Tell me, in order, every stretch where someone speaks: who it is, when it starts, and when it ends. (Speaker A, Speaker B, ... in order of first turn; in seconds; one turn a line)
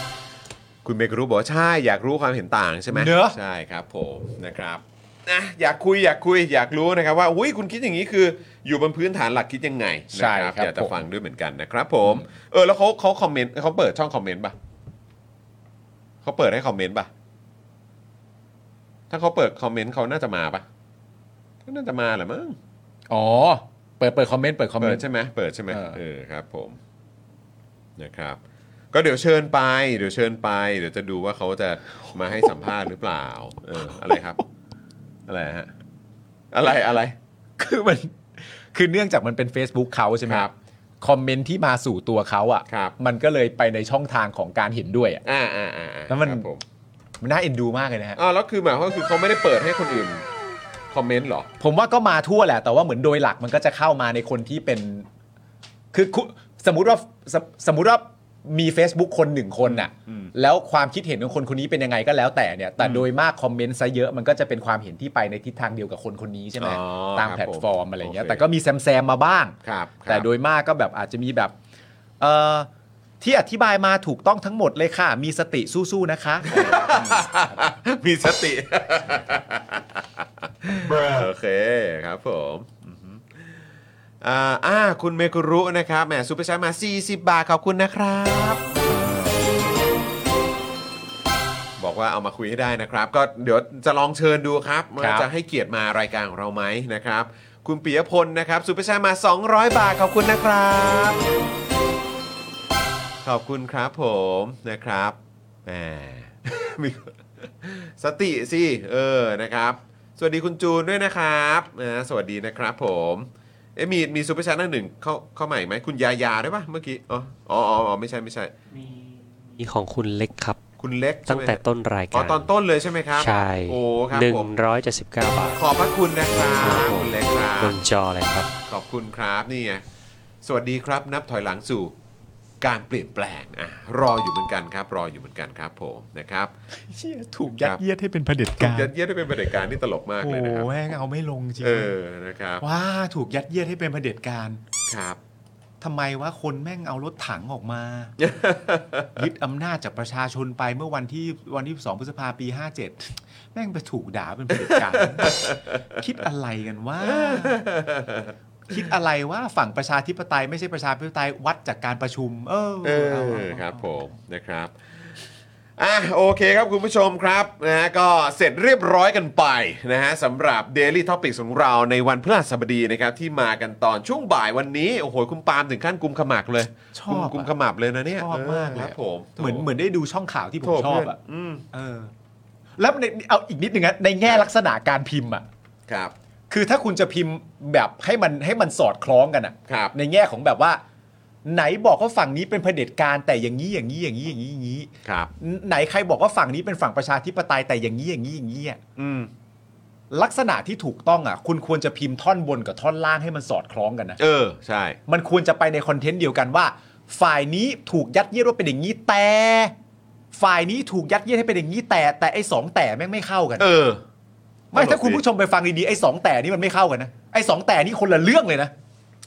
Speaker A: 0.8-14.5
Speaker B: 2.9-3.4
Speaker B: 10.1-11.0
Speaker A: 16.2-17.1
Speaker A: 19.1-20.6
Speaker A: 21.6-22.6
Speaker B: 23.1-25.0
Speaker A: 24.8-26.8
Speaker B: 25.7-26.0
Speaker A: 28.0-28.4
Speaker A: 28.9-34.4
Speaker A: 35.3-35.7
Speaker A: 36.5-37.1
Speaker B: 37.6-45.2
Speaker A: 45.2-46.6
Speaker B: 46.1-46.5
Speaker B: 47.2-48.2
Speaker A: 48.2-50.2
Speaker A: 50.9-51.5
Speaker B: 51.6-55.1
Speaker B: 55.9-69.5
Speaker A: 59.6-60.3
Speaker A: 62.8-63.0
Speaker A: 66.6-68.4
Speaker A: 69.6-70.2
Speaker B: 70.1-71.5
Speaker B: 72.2-72.7
Speaker B: 73.2-77.3
Speaker A: 76.4-83.5
Speaker A: 84.2-88.6
Speaker B: 88.8-89.5
Speaker A: 91.8-101.2
Speaker B: 95.0-95.3
Speaker A: 103.2-118.5
Speaker C: 119.6-120.6
Speaker A: 120.8-121.6
Speaker C: 121.3-122.5
Speaker A: 122.1-124.5
Speaker C: 123.1-125.6
Speaker A: 125.5-127.8
Speaker C: 126.6-128.5
Speaker A: 128.7-129.8
Speaker A: 130.4-131.9
Speaker A: 132.6-136.5
Speaker B: 136.9-138.9
Speaker A: 138.6-140.7
Speaker B: 140.2-141.9
Speaker A: 141.6-142.6
Speaker B: 142.6-144.6
Speaker A: 144.9-145.2
Speaker B: 145.8-148.2
Speaker A: 148.2-149.2
Speaker B: 149.2-157.6
Speaker A: 154.6-155.8
Speaker A: 157.0-158.8
Speaker B: 158.7-163.8
Speaker A: 162.8-164.7
Speaker A: 165.8-179.7
Speaker B: 176.9-177.5
Speaker B: 178.2-181.2
Speaker A: 180.6-181.6
Speaker B: 181.7-182.1
Speaker B: 182.8-185.4
Speaker A: 185.9-186.1
Speaker B: 186.5-190.8
Speaker A: 189.7-189.9
Speaker B: 191.4-198.8
Speaker A: 195.0-195.3
Speaker A: 199.0-199.3
Speaker B: 200.1-204.2
Speaker A: 204.2-205.0
Speaker B: 205.1-209.7
Speaker B: 210.3-213.7
Speaker A: 213.6-214.0
Speaker B: 214.7-218.7
Speaker A: 214.7-215.2